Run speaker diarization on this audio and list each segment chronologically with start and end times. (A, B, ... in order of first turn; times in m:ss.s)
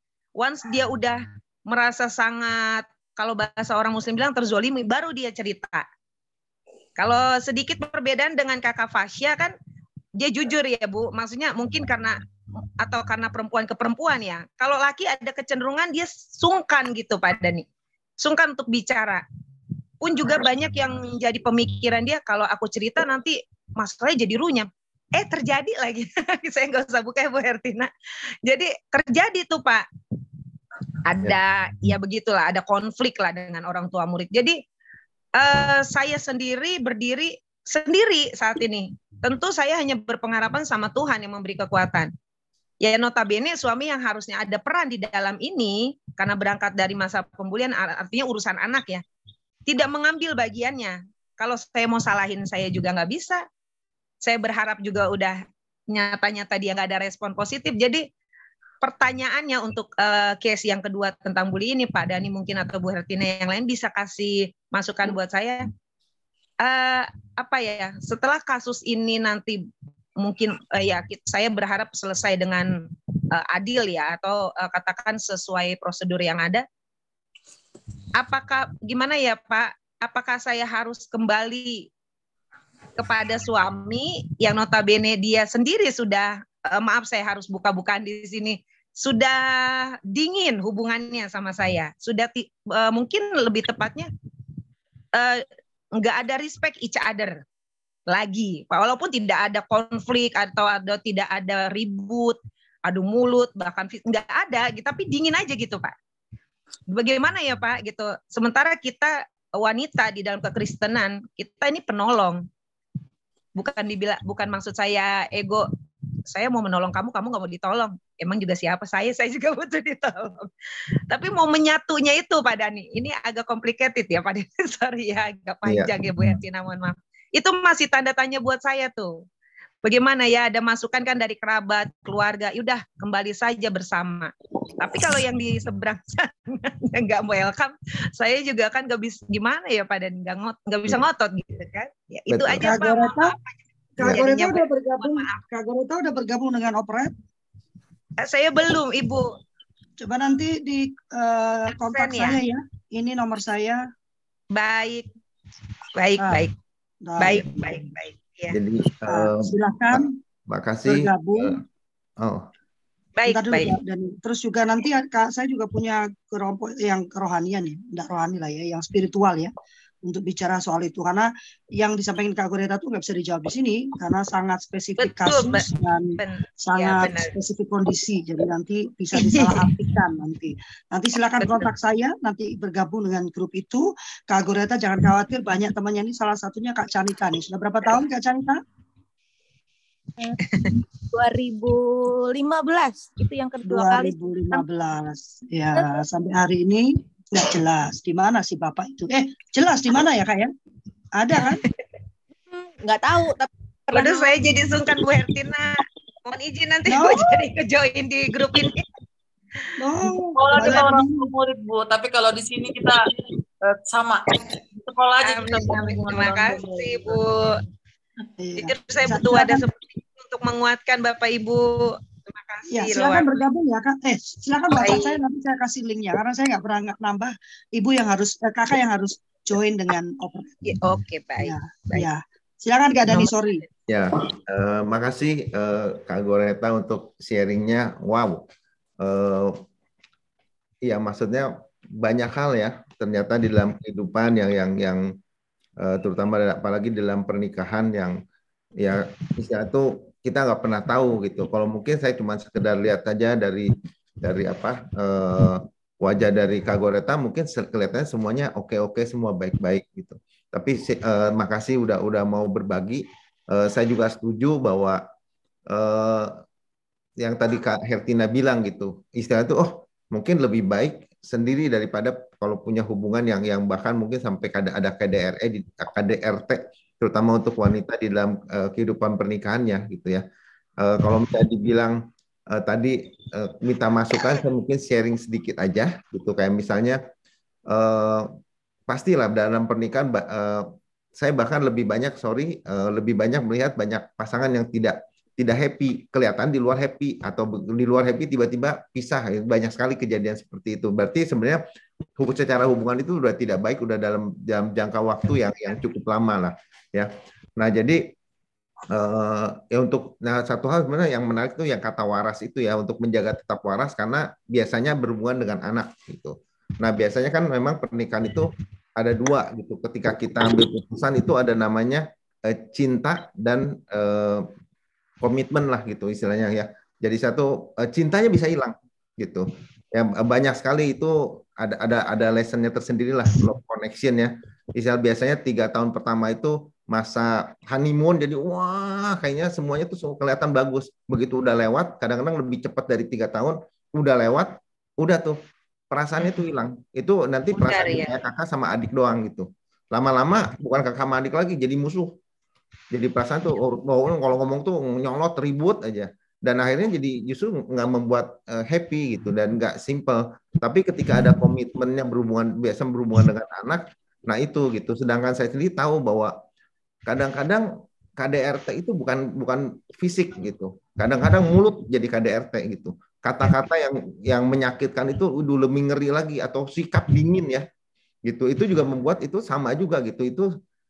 0:00.4-0:05.8 A
0:07.0-0:09.5 A
0:10.2-0:12.2 A
0:12.8-0:17.6 A
0:18.2-0:19.2 A
0:20.0-0:27.9 A
0:28.4-0:29.8 A
0:31.0-0:34.6 A
0:35.4-0:42.1 A
0:42.8-0:49.0 A
0:49.7-0:53.4 A
0:54.2-0:55.4 A
0:55.9-0:58.0 A
0:58.8-1:05.7 A
1:06.6-1:09.6 A
1:10.2-1:12.7 A
1:13.3-1:16.6 A
1:18.2-1:21.9 A
1:23.0-1:34.1 A
1:35.1-1:37.4 A
1:38.1-1:45.9 A
1:46.9-1:52.4 A
1:53.6-1:55.7 A
1:56.3-2:00.5 A
2:01.1-2:09.2 A
2:05.6-2:05.9 B
2:09.8-2:25.4 A
2:22.3-2:22.7 B
2:22.6-2:23.3 C
2:24.0-2:27.1 C
2:28.2-2:29.4 A
2:30.0-2:33.8 C
2:31.8-2:32.4 A
2:34.5-2:35.1 A
2:35.9-2:36.5 A
2:37.0-2:37.8 C
2:37.2-2:38.6 A
2:38.5-2:41.6 B
2:39.1-2:40.2 C
2:40.8-2:41.6 C
2:42.2-2:42.5 B
2:43.2-2:43.8 A
2:43.3-2:49.5 C
2:50.0-3:08.6 C
2:55.0-2:57.3 A
2:59.2-2:59.7 A
3:01.4-3:01.7 A
3:10.2-3:14.6 D
3:10.4-3:10.7 A
3:13.6-3:20.5 C
3:21.2-3:21.6 C
3:22.5-3:24.6 D
3:23.9-3:28.8 A
3:26.9-3:27.2 C
3:29.8-3:31.3 C
3:30.4-3:33.1 E
3:33.6-3:37.2 E
3:35.2-3:37.6 A
3:38.4-3:39.6 C
3:38.6-3:43.4 A
3:42.7-3:50.5 C
3:44.7-3:45.2 A
3:50.6-3:52.1 A
3:51.4-3:53.6 C
3:53.1-3:53.6 A
3:53.9-3:58.5 B
3:59.0-3:59.6 B
4:00.8-4:05.1 B
4:05.8-4:08.2 B
4:08.8-4:25.0 B
4:25.7-4:26.4 B
4:27.2-4:40.2 B
4:40.8-4:42.0 B
4:42.5-4:47.0 B
4:47.7-4:48.3 B
4:48.9-5:01.6 B
5:02.2-5:08.1 B
5:08.9-5:24.5 B
5:25.2-5:52.1 B
5:47.5-5:48.2 A
5:52.9-6:06.3 B
6:07.1-6:17.6 B
6:18.2-6:20.5 B